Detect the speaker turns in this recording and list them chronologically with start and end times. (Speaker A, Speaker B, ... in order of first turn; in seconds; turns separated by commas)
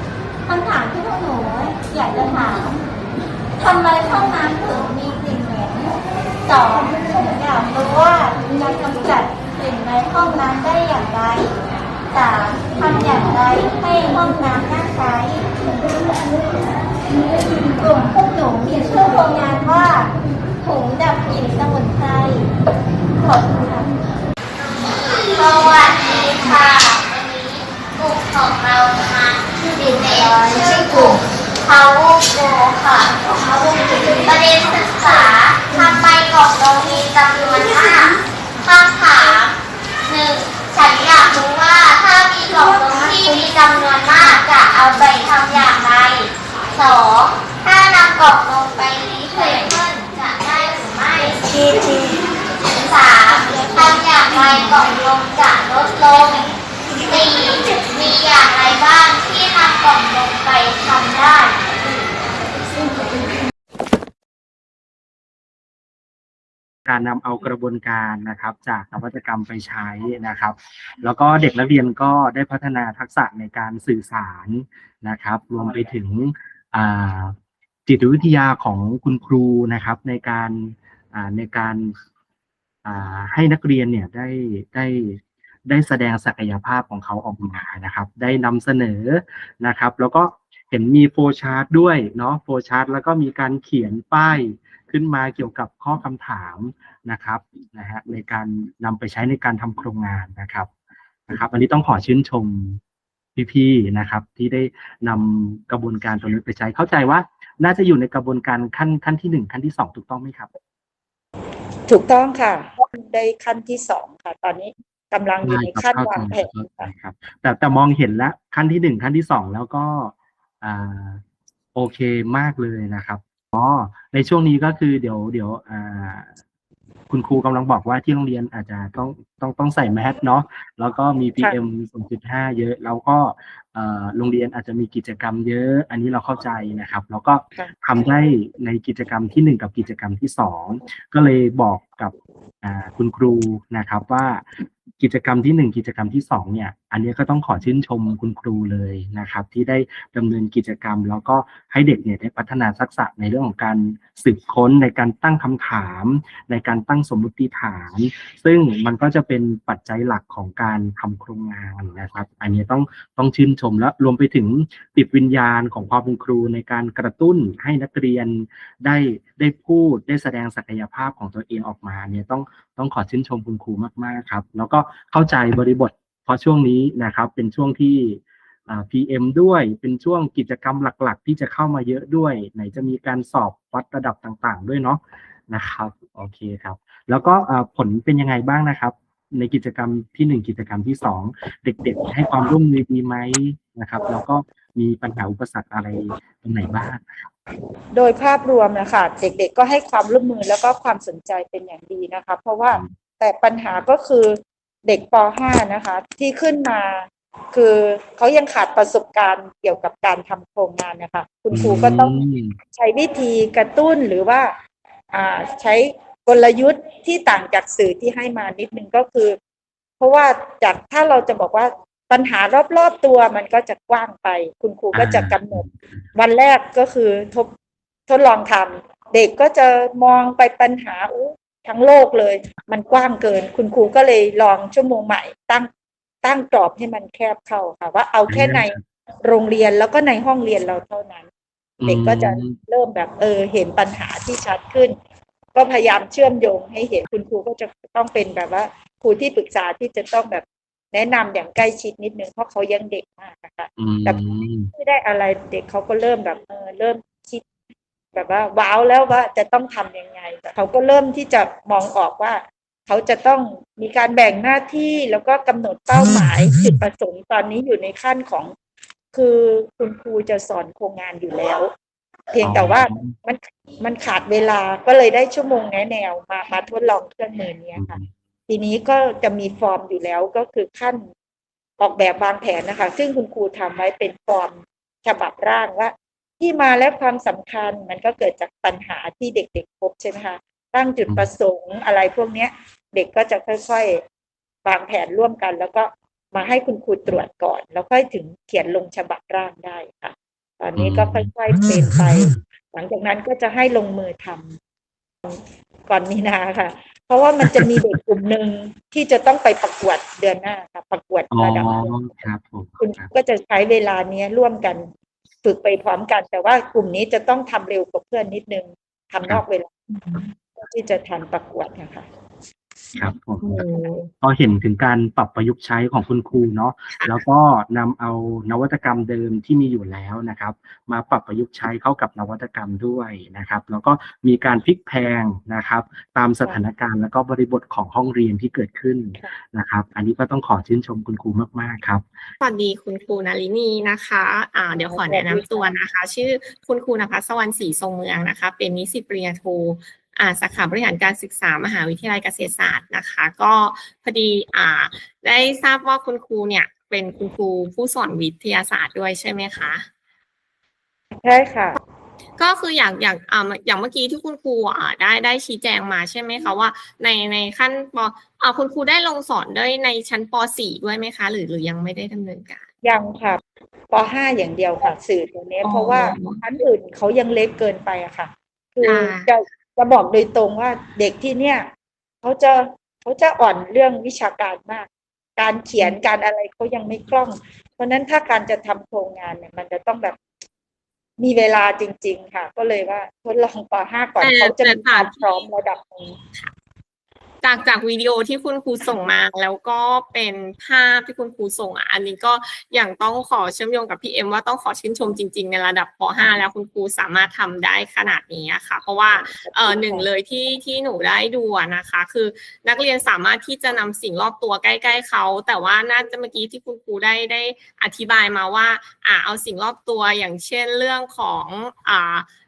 Speaker A: 0.5-2.8, Speaker A: 3.6-15.6, Speaker A: 17.7-22.5, Speaker A: 23.2-23.9, Speaker B: 24.6-52.0, Speaker B: 52.7-62.0, Speaker C: 66.8-82.0, Speaker C: 82.8-100.7, Speaker C: 101.3-102.8, Speaker C: 103.4-110.5, Speaker D: 111.9-116.9, Speaker C: 115.4-121.2, Speaker C: 121.8-126.3, Speaker C: 127.1-197.3, Speaker D: 197.9-214.6, Speaker C: 211.5-212.6, Speaker D: 215.1-219.4, Speaker D: 220.0-227.5, Speaker C: 224.9-225.8, Speaker D: 228.1-235.7, Speaker D: 236.2-241.3, Speaker C: 238.3-238.8, Speaker C: 241.8-242.6, Speaker D: 241.9-245.0, Speaker D: 245.5-254.2, Speaker C: 253.8-254.7, Speaker D: 254.7-257.4, Speaker D: 258.1-268.6, Speaker D: 269.1-271.7, Speaker D: 272.3-278.0, Speaker C: 272.4-273.1, Speaker C: 277.8-278.1, Speaker D: 278.5-281.1, Speaker D: 281.8-294.0, Speaker D: 294.6-304.6, Speaker C: 300.8-301.3, Speaker D: 305.2-311.9, Speaker C: 307.5-307.9, Speaker C: 311.3-313.1, Speaker D: 312.8-314.9, Speaker D: 315.4-319.8, Speaker D: 320.5-322.1, Speaker C: 323.0-342.1, Speaker E: 323.4-324.1, Speaker E: 327.0-327.2, Speaker E: 342.4-359.9, Speaker D: 344.9-345.7, Speaker D: 361.2-361.8, Speaker E: 362.4-372.6, Speaker D: 372.8-381.7, Speaker E: 375.6-376.4, Speaker E: 378.8-379.3, Speaker D: 382.2-390.2, Speaker D: 391.2-396.2, Speaker E: 394.2-395.5, Speaker E: 397.4-422.3, Speaker D: 409.1-410.1